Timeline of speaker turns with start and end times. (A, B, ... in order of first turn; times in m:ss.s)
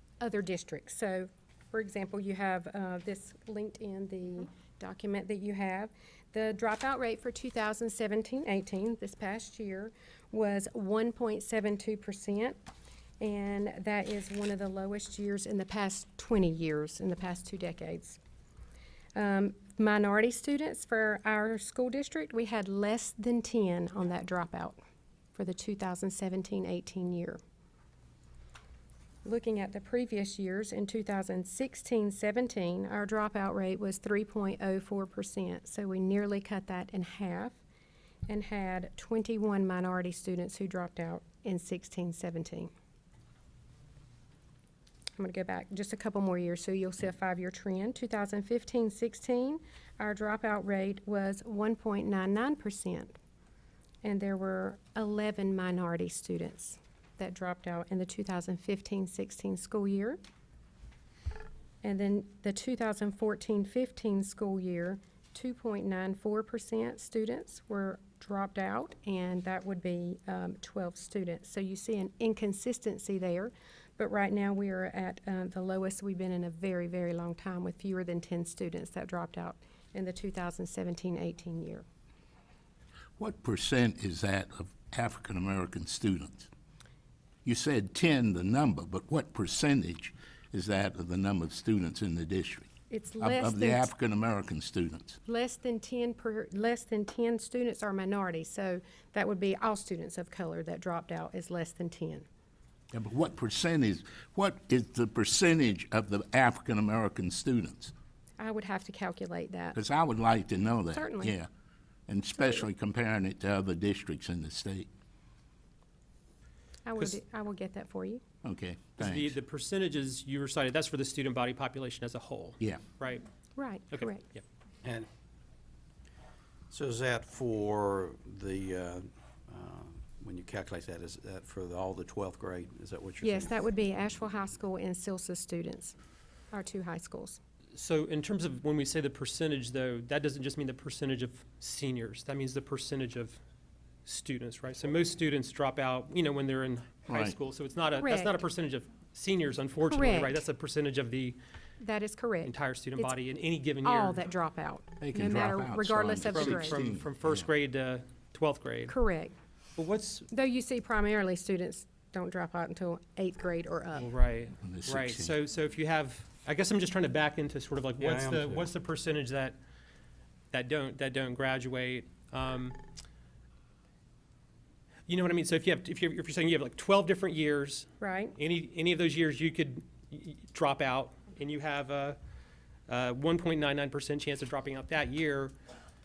0:00.2-0:12.6 A
0:13.2-0:18.2 A
0:19.2-0:24.8 A
0:25.4-0:27.4 A
0:29.2-0:37.6 A
0:38.3-0:42.7 A
0:45.2-0:53.2 A
0:54.0-1:00.2 A
1:01.8-1:21.8 A
1:23.2-1:26.5 B
1:27.4-1:32.7 B
1:32.9-1:33.9 A
1:33.2-1:35.2 B
1:35.3-1:42.3 A
1:42.9-1:47.9 B
1:48.4-1:49.8 A
1:49.8-1:51.5 B
1:50.9-1:51.4 A
1:52.1-1:54.9 B
1:56.8-1:58.2 A
1:58.4-1:59.4 B
1:59.0-2:03.2 C
2:03.6-2:04.2 A
2:03.9-2:04.4 C
2:06.7-2:13.7 D
2:13.2-2:16.0 A
2:16.5-2:17.4 A
2:17.8-2:23.4 C
2:24.1-2:31.4 C
2:27.1-2:27.4 B
2:28.0-2:28.4 A
2:29.9-2:30.4 A
2:31.8-2:33.1 A
2:32.4-2:34.2 C
2:33.8-2:36.8 A
2:35.0-2:37.5 B
2:36.3-2:39.0 C
2:38.9-2:39.4 A
2:39.8-2:40.3 C
2:40.3-2:44.1 A
2:44.0-2:49.6 C
2:44.6-2:45.4 B
2:48.0-2:48.7 D
2:50.5-2:52.8 C
2:55.1-3:02.2 C
2:58.0-2:58.4 A
3:02.9-3:05.5 C